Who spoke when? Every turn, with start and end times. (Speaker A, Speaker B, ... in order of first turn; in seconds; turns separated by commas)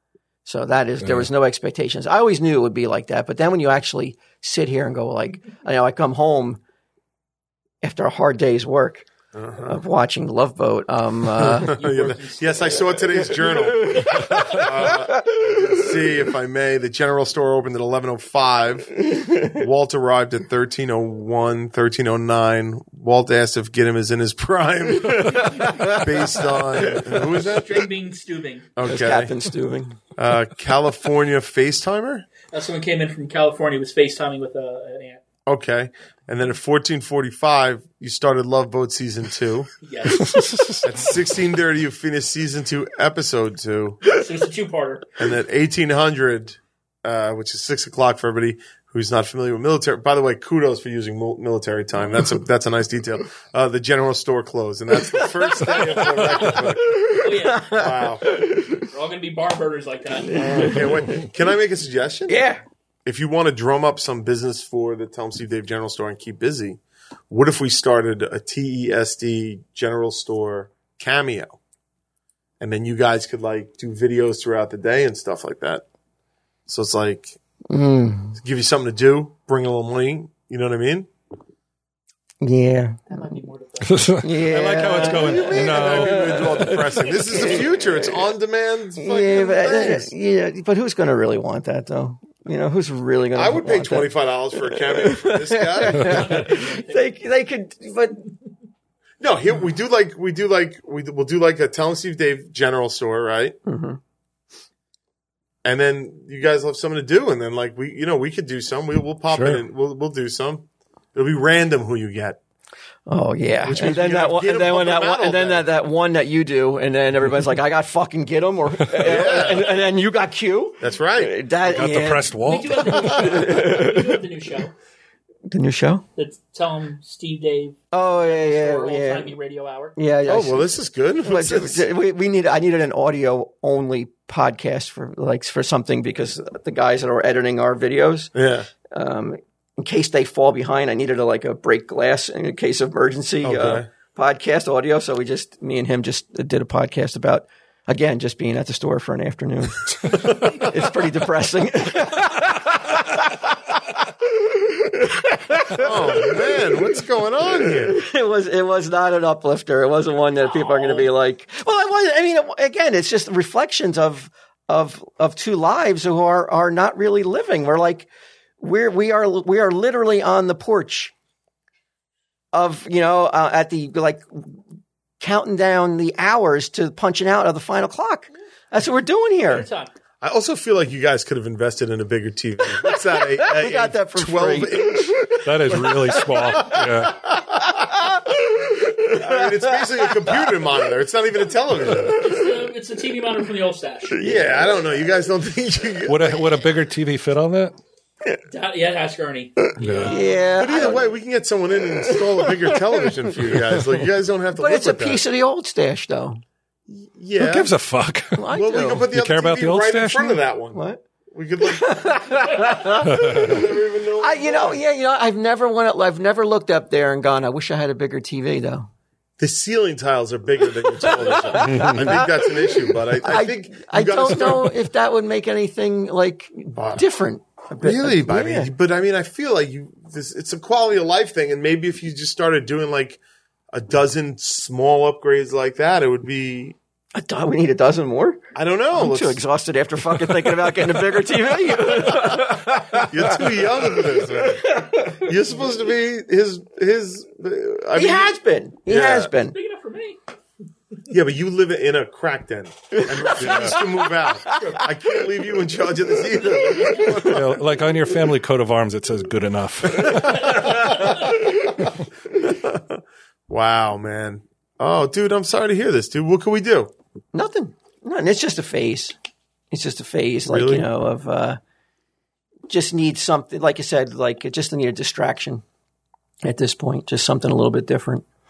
Speaker A: 0.4-6.6, Speaker B: 1.0-1.3, Speaker A: 7.8-9.1, Speaker C: 9.3-9.8, Speaker A: 9.6-11.8, Speaker C: 11.4-27.9, Speaker D: 11.7-13.2, Speaker A: 13.7-15.8, Speaker D: 13.9-14.6, Speaker A: 25.0-27.2, Speaker D: 25.4-25.8, Speaker D: 27.3-28.7, Speaker C: 28.8-29.3, Speaker A: 28.8-30.0, Speaker C: 30.2-32.3, Speaker D: 32.5-35.2, Speaker C: 35.5-39.7, Speaker D: 39.8-40.4, Speaker B: 40.1-40.9, Speaker C: 40.8-44.1, Speaker D: 44.1-45.1, Speaker C: 45.2-57.1, Speaker A: 55.1-58.9, Speaker D: 57.2-57.8, Speaker C: 57.6-58.3, Speaker D: 58.9-60.9, Speaker A: 60.2-61.2, Speaker C: 60.3-62.4, Speaker A: 62.3-62.6, Speaker C: 63.0-71.6, Speaker C: 72.6-75.8, Speaker C: 76.7-77.4, Speaker A: 77.7-78.4, Speaker C: 78.3-81.1, Speaker A: 82.4-83.2, Speaker D: 83.1-84.2, Speaker B: 83.8-86.7, Speaker A: 84.2-88.2, Speaker C: 85.0-90.1, Speaker A: 89.0-98.2, Speaker C: 93.3-96.4, Speaker D: 95.8-97.1, Speaker C: 99.2-103.6, Speaker A: 103.7-104.0, Speaker C: 105.6-112.4, Speaker B: 109.3-109.6, Speaker A: 113.1-122.4, Speaker C: 113.6-115.7, Speaker C: 119.0-119.8, Speaker C: 120.8-121.4, Speaker B: 121.7-123.2, Speaker D: 122.4-124.7, Speaker A: 122.9-124.2, Speaker A: 125.5-126.0, Speaker D: 126.2-129.9, Speaker A: 127.9-129.3, Speaker A: 129.9-130.7, Speaker C: 130.3-131.8, Speaker A: 131.2-138.3, Speaker C: 138.3-138.7, Speaker A: 138.9-156.8, Speaker C: 143.4-143.9, Speaker C: 155.7-158.0, Speaker A: 157.7-168.1, Speaker D: 160.4-161.1, Speaker A: 168.6-171.1, Speaker A: 172.5-174.6, Speaker A: 175.2-179.7, Speaker D: 179.5-179.9, Speaker C: 180.2-187.1, Speaker A: 182.9-190.5, Speaker B: 185.4-187.2, Speaker C: 189.0-192.4, Speaker D: 192.1-194.3, Speaker C: 194.2-196.4, Speaker A: 194.2-194.6, Speaker B: 196.1-197.8, Speaker D: 198.5-200.9, Speaker B: 199.8-200.2, Speaker A: 200.1-201.1, Speaker C: 200.5-205.2, Speaker A: 202.1-203.0, Speaker A: 204.6-206.4, Speaker C: 206.9-207.7, Speaker B: 207.4-208.5, Speaker A: 208.3-209.1, Speaker C: 208.5-210.8, Speaker B: 209.1-210.4, Speaker A: 210.7-211.0, Speaker C: 211.3-214.8, Speaker A: 211.6-213.6, Speaker B: 213.0-213.6, Speaker A: 214.2-218.9, Speaker C: 219.4-224.8, Speaker A: 221.0-222.4, Speaker A: 223.2-228.7, Speaker C: 226.7-227.0, Speaker C: 227.8-233.2, Speaker C: 233.7-236.8, Speaker A: 237.1-238.4, Speaker C: 238.5-239.4, Speaker A: 238.9-245.2, Speaker C: 241.9-249.3, Speaker A: 247.9-249.5, Speaker D: 249.4-250.2, Speaker C: 251.1-257.6, Speaker A: 252.9-254.9, Speaker B: 253.4-253.8, Speaker B: 257.1-260.6, Speaker C: 259.9-266.9, Speaker D: 260.5-261.2, Speaker A: 267.3-269.1, Speaker A: 269.7-271.6, Speaker C: 270.5-270.9, Speaker A: 272.7-275.6, Speaker A: 276.4-278.2